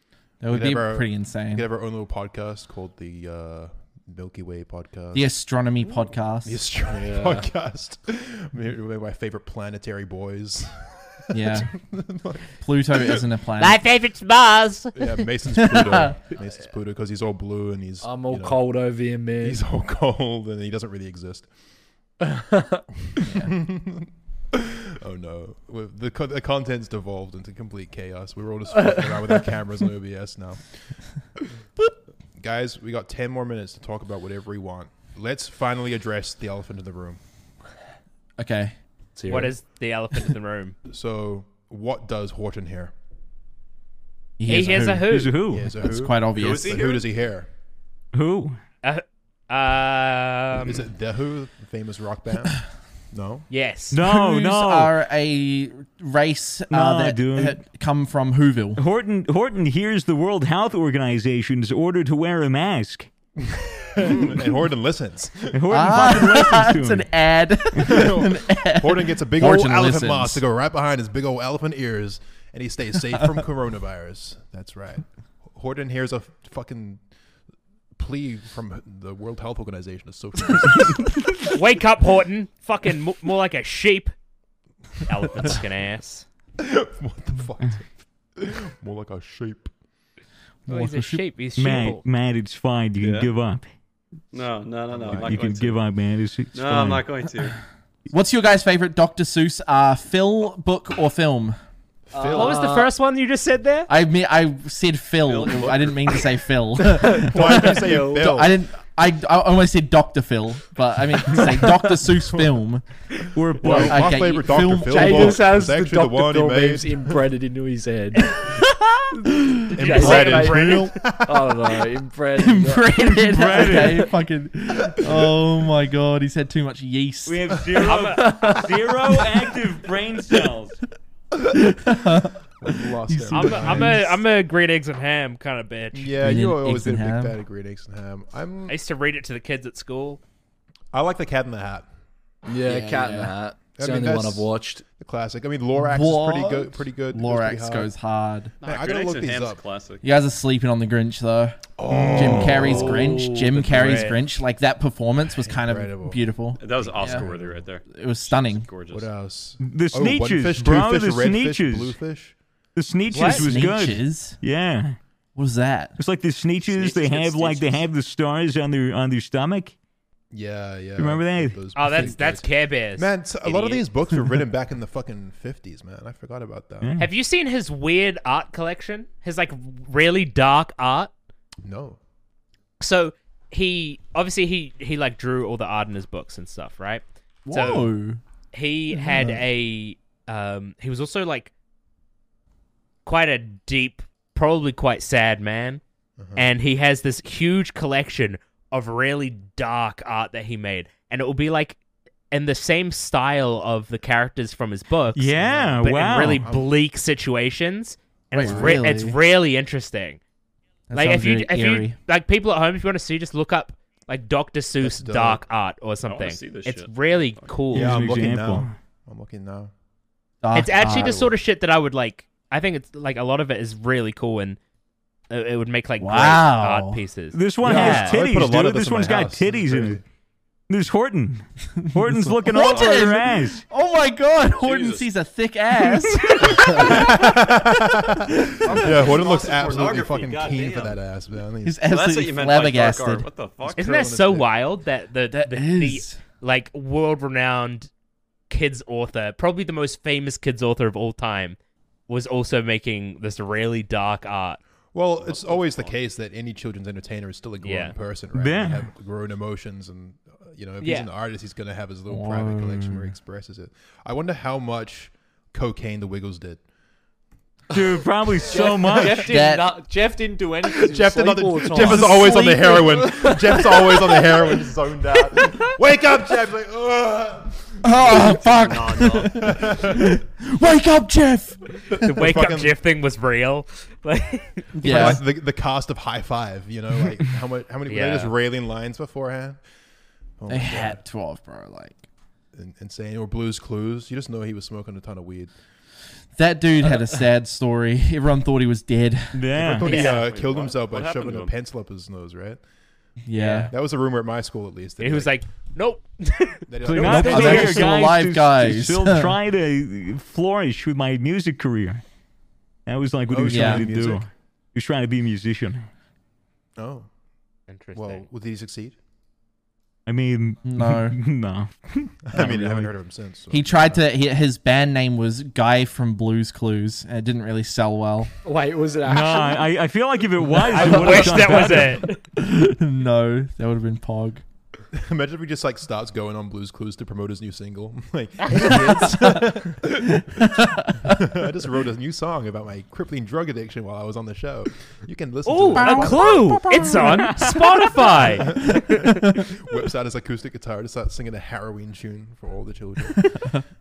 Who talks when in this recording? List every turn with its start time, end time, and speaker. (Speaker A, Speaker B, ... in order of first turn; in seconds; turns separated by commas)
Speaker A: 0.4-1.7, Speaker B: 0.5-5.3, Speaker A: 5.1-6.6, Speaker B: 6.4-12.5, Speaker C: 7.0-7.5, Speaker A: 11.3-11.8, Speaker A: 12.6-13.8, Speaker D: 13.6-15.2, Speaker B: 14.9-18.6, Speaker A: 15.6-16.1, Speaker C: 18.0-19.6, Speaker B: 19.4-21.5, Speaker C: 22.3-22.8, Speaker B: 23.1-31.0, Speaker A: 23.2-23.5, Speaker B: 32.4-37.2, Speaker A: 38.4-38.8, Speaker C: 39.2-39.5, Speaker D: 39.3-40.8, Speaker B: 40.9-42.9, Speaker A: 44.4-45.1, Speaker D: 44.5-45.3, Speaker E: 45.1-45.7, Speaker B: 45.5-47.5, Speaker A: 45.7-46.8, Speaker F: 46.3-47.1, Speaker E: 48.1-48.6, Speaker D: 48.8-50.9, Speaker B: 50.5-53.5, Speaker D: 53.5-54.0, Speaker E: 53.9-55.0, Speaker A: 54.0-58.8, Speaker E: 56.7-57.6, Speaker E: 58.8-63.1, Speaker B: 63.4-65.6, Speaker E: 65.5-67.1, Speaker A: 65.7-70.4, Speaker E: 67.8-68.1, Speaker B: 67.8-77.0, Speaker B: 78.0-81.1, Speaker D: 81.5-84.1, Speaker D: 85.0-86.2, Speaker B: 86.6-89.7, Speaker A: 90.7-91.2, Speaker D: 90.7-92.0, Speaker E: 91.6-93.7, Speaker F: 93.0-93.3, Speaker F: 94.3-95.8, Speaker B: 94.9-95.5, Speaker E: 95.1-97.1, Speaker F: 96.5-97.6, Speaker A: 98.1-101.6, Speaker B: 102.1-102.6, Speaker C: 102.1-102.9, Speaker D: 102.3-103.9, Speaker A: 103.9-112.9, Speaker F: 105.2-106.3, Speaker C: 107.0-108.2, Speaker B: 107.1-108.6, Speaker E: 113.3-114.2, Speaker B: 113.6-117.2, Speaker A: 113.6-115.5, Speaker C: 114.8-118.5, Speaker A: 118.2-120.9, Speaker B: 119.7-121.8, Speaker C: 119.7-122.9, Speaker D: 119.8-120.9, Speaker A: 122.3-127.9, Speaker E: 123.0-124.1, Speaker E: 127.3-130.8, Speaker D: 127.8-128.7, Speaker C: 128.2-129.3, Speaker A: 131.5-134.1, Speaker B: 132.6-134.2, Speaker D: 133.3-136.2, Speaker B: 135.9-138.8, Speaker A: 136.2-137.4, Speaker D: 138.7-140.2, Speaker B: 140.9-141.9, Speaker C: 142.4-144.8, Speaker A: 142.6-143.3, Speaker B: 143.8-147.9, Speaker A: 145.8-148.5, Speaker F: 148.6-150.0, Speaker B: 148.6-149.6, Speaker A: 150.0-157.3, Speaker B: 151.8-153.4, Speaker E: 151.9-152.7, Speaker F: 152.2-153.8, Speaker D: 153.7-154.1, Speaker B: 155.2-157.6, Speaker F: 156.6-159.1, Speaker A: 157.9-158.7, Speaker B: 158.9-162.3, Speaker E: 159.6-162.0, Speaker E: 162.8-165.0, Speaker A: 163.1-164.4, Speaker D: 163.1-163.4, Speaker A: 165.4-166.0, Speaker E: 166.0-169.8, Speaker F: 166.6-167.9, Speaker B: 170.3-176.9, Speaker E: 171.0-172.0, Speaker D: 171.8-173.9, Speaker E: 176.8-177.1, Speaker D: 177.0-181.1, Speaker B: 181.6-182.0, Speaker D: 182.8-187.9, Speaker A: 187.5-188.2, Speaker D: 188.5-191.5, Speaker A: 188.9-189.4, Speaker D: 193.1-195.8, Speaker B: 196.2-196.5, Speaker D: 196.4-201.8, Speaker D: 202.3-210.2, Speaker E: 205.1-206.5, Speaker B: 205.3-205.8, Speaker B: 206.4-206.7, Speaker A: 208.3-209.2, Speaker B: 208.4-208.8, Speaker A: 210.9-212.0, Speaker D: 210.9-218.0, Speaker B: 214.8-215.4, Speaker F: 216.0-217.7, Speaker B: 217.7-219.7, Speaker E: 217.7-218.7, Speaker A: 220.4-221.2, Speaker D: 220.5-224.6, Speaker D: 225.3-228.2, Speaker A: 226.0-227.0, Speaker E: 227.3-230.0, Speaker B: 227.6-230.0, Speaker E: 230.7-233.7, Speaker A: 231.8-237.4, Speaker F: 234.5-235.1, Speaker B: 236.4-241.8, Speaker F: 238.6-241.0, Speaker A: 238.6-238.9, Speaker A: 241.6-243.3, Speaker F: 241.8-243.9, Speaker B: 243.6-244.5, Speaker D: 243.8-247.9, Speaker A: 245.3-246.2, Speaker D: 248.5-251.6, Speaker D: 252.1-254.6, Speaker B: 254.9-266.6, Speaker F: 255.3-255.9, Speaker D: 257.6-257.9, Speaker E: 258.4-258.9, Speaker D: 260.8-261.1, Speaker A: 262.1-263.1, Speaker E: 267.7-269.4, Speaker C: 267.7-274.4, Speaker A: 269.1-269.7, Speaker B: 270.8-278.4, Speaker A: 271.7-273.4, Speaker A: 277.8-282.5, Speaker F: 278.0-279.7, Speaker B: 279.2-280.2, Speaker D: 282.0-285.1, Speaker B: 282.2-282.8, Speaker A: 284.8-285.2, Speaker B: 284.8-289.6, Speaker D: 287.9-288.3, Speaker B: 290.4-291.0, Speaker A: 290.5-292.0, Speaker B: 292.6-295.5, Speaker A: 296.4-299.5, Speaker E: 299.3-300.1, Speaker B: 299.5-302.6, Speaker D: 299.8-300.2, Speaker F: 299.9-301.5, Speaker A: 303.2-303.7, Speaker D: 303.4-303.7, Speaker B: 303.7-305.4, Speaker D: 305.0-307.9, Speaker B: 306.7-307.8, Speaker A: 306.8-309.4, Speaker E: 306.9-312.0, Speaker E: 312.9-315.9, Speaker B: 313.3-314.2, Speaker A: 313.5-313.9, Speaker B: 316.8-317.1, Speaker D: 317.7-318.2, Speaker B: 317.9-319.0, Speaker E: 320.1-322.3, Speaker A: 320.6-321.2, Speaker B: 322.3-324.1, Speaker A: 322.3-322.9, Speaker A: 323.5-328.3, Speaker C: 328.4-329.7, Speaker E: 329.0-332.0, Speaker D: 330.7-332.2, Speaker A: 330.9-334.4, Speaker B: 334.9-346.5, Speaker A: 338.7-341.3, Speaker D: 345.5-349.2, Speaker A: 345.8-349.3, Speaker E: 347.0-347.6, Speaker B: 348.2-353.6